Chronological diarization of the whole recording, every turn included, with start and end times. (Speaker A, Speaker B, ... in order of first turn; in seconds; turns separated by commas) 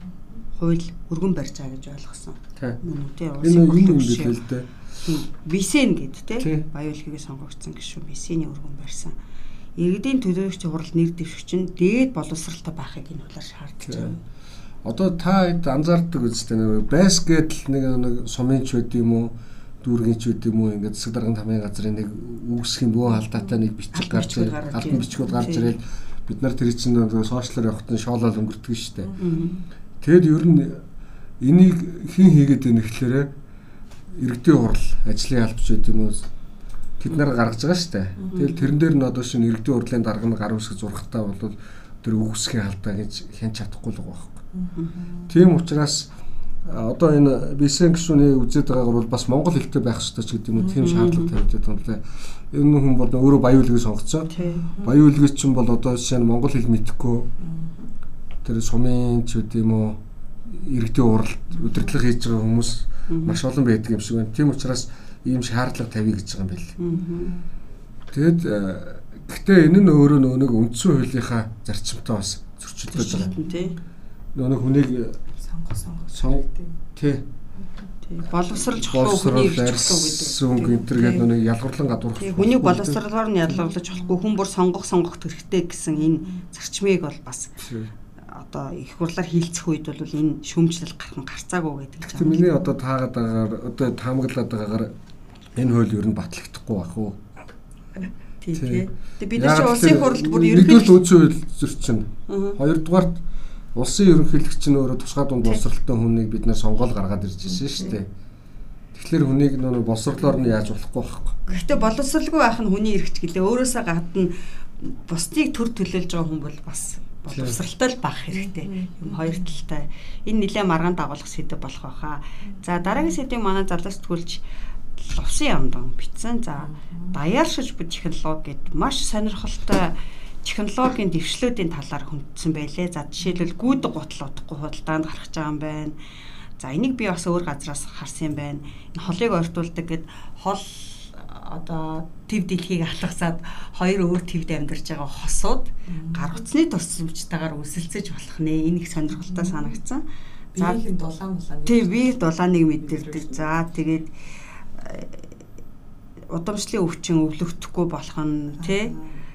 Speaker A: 0.6-4.4, Speaker B: 3.4-4.9, Speaker A: 5.0-9.1, Speaker B: 6.4-6.6, Speaker A: 9.8-14.2, Speaker B: 13.8-14.2, Speaker B: 14.8-29.2, Speaker A: 23.9-25.8, Speaker A: 29.2-29.6, Speaker B: 30.0-30.8, Speaker B: 31.4-33.3, Speaker B: 34.1-36.2, Speaker B: 37.0-44.4, Speaker B: 45.3-46.1, Speaker B: 46.6-54.3, Speaker C: 50.5-50.9, Speaker A: 50.8-51.3, Speaker A: 54.3-54.7, Speaker C: 54.5-54.9, Speaker B: 54.8-57.3, Speaker C: 57.4-57.9, Speaker B: 58.4-66.8, Speaker A: 63.1-63.4, Speaker A: 66.8-67.4, Speaker C: 66.9-67.4, Speaker B: 68.1-73.3, Speaker A: 72.9-73.8, Speaker C: 73.2-73.8, Speaker B: 74.3-75.2, Speaker C: 75.4-76.8, Speaker B: 76.1-76.4, Speaker B: 77.0-77.2, Speaker A: 78.0-81.3, Speaker B: 78.8-83.0, Speaker A: 82.2-87.6, Speaker C: 83.7-84.2, Speaker C: 86.2-86.4, Speaker B: 87.6-87.9, Speaker A: 88.2-92.5, Speaker B: 92.0-94.9, Speaker B: 95.5-97.2, Speaker A: 98.4-101.0, Speaker B: 98.5-103.2, Speaker A: 102.3-102.6, Speaker B: 103.7-108.1, Speaker B: 108.9-111.4, Speaker A: 111.5-124.4, Speaker B: 117.3-117.6, Speaker C: 118.3-119.5, Speaker C: 122.5-123.0, Speaker A: 125.0-136.0, Speaker C: 126.6-127.1, Speaker A: 136.6-150.0, Speaker C: 145.9-146.4, Speaker C: 149.2-149.8, Speaker C: 150.5-153.6, Speaker A: 150.6-150.8, Speaker A: 151.7-155.3, Speaker A: 156.3-158.9, Speaker C: 158.6-159.2